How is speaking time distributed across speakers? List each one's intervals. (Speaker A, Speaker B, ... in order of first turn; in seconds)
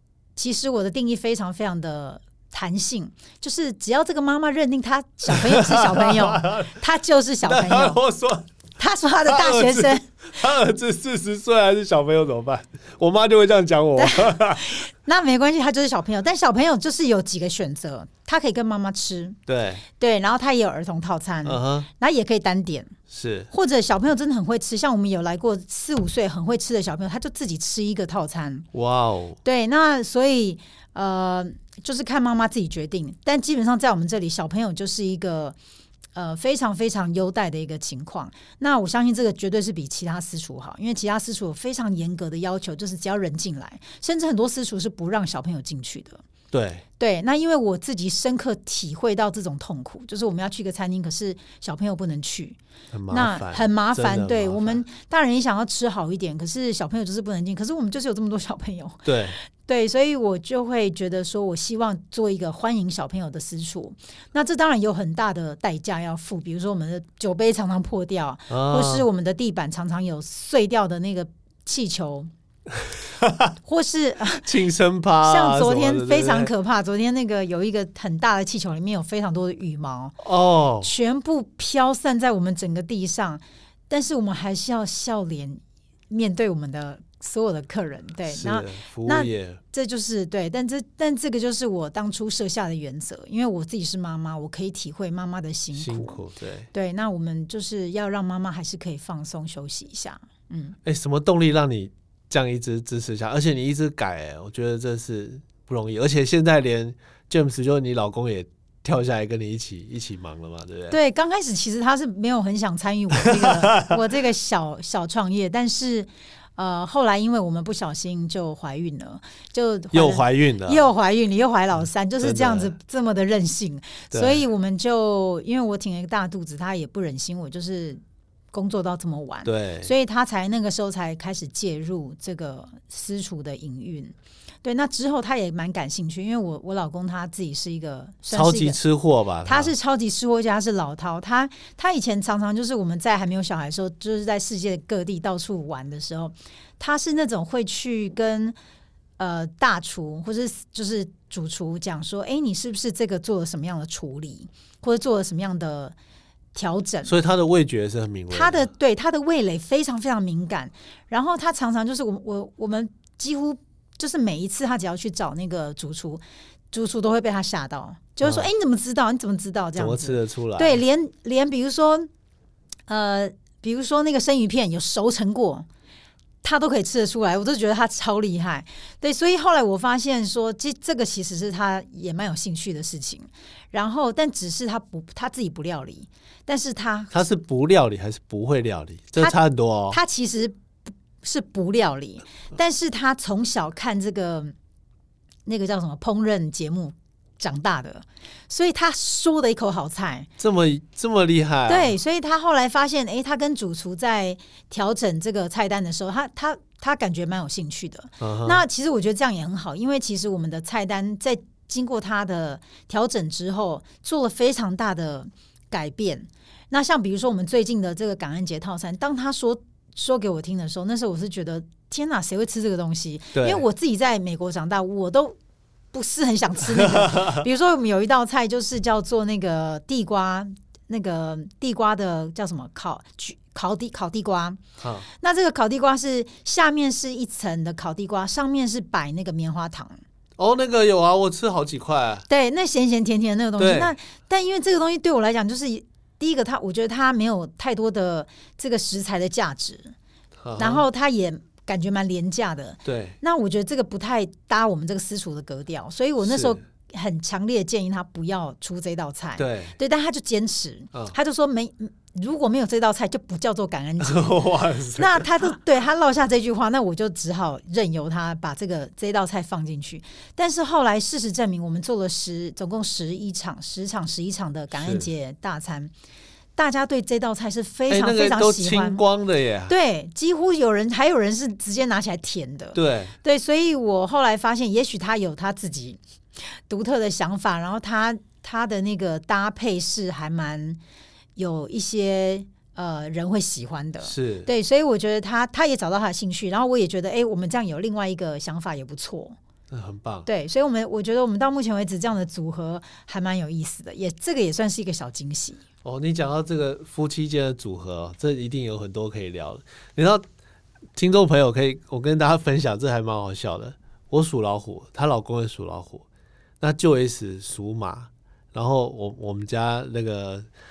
Speaker A: 0.4-8.0, 8.8-10.1, 14.0-19.4, 19.9-22.9, 23.5-28.7, 29.4-35.6, 36.1-46.2, 47.0-72.3, 73.6-74.5, 75.2-80.2, 80.8-96.2, 96.7-100.8, 110.9-128.0, 128.5-138.8, 139.4-148.6, 149.2-155.9, 156.6-157.1, 158.3-172.1, 172.9-175.7, 176.4-187.2, 189.9-190.6, 191.2-194.5, 195.5-200.3, 201.7-225.4, 225.9-240.0, 242.3-249.9, 250.6-264.4, 265.0-275.9, 276.6-279.0, 279.7-290.8, 291.4-299.4, 300.3-305.6
Speaker B: 5.3-6.8, 7.4-8.5, 9.2-14.8, 19.5-19.9, 21.4-21.9, 23.1-23.5, 28.7-29.4, 46.5-46.8, 52.9-54.8, 59.1-59.4, 68.5-69.1, 73.1-73.5, 74.4-76.5, 80.2-80.9, 88.3-89.6, 95.7-96.7, 100.8-111.0, 113.2-114.0, 119.9-120.8, 122.2-122.8, 124.1-124.5, 129.4-129.9, 138.3-139.7, 157.1-158.7, 168.2-168.5, 169.8-170.8, 187.1-190.0, 200.4-202.0, 208.2-208.6, 223.3-223.6, 226.6-227.4, 234.8-235.1, 240.4-242.3, 243.6-243.9, 250.4-250.9, 252.8-253.2, 256.2-256.6, 259.4-259.8, 264.0-265.5, 274.7-275.1, 277.9-279.7, 282.7-283.1, 294.0-294.5, 299.7-300.3, 305.8-310.2, 311.0-316.1, 316.6-320.5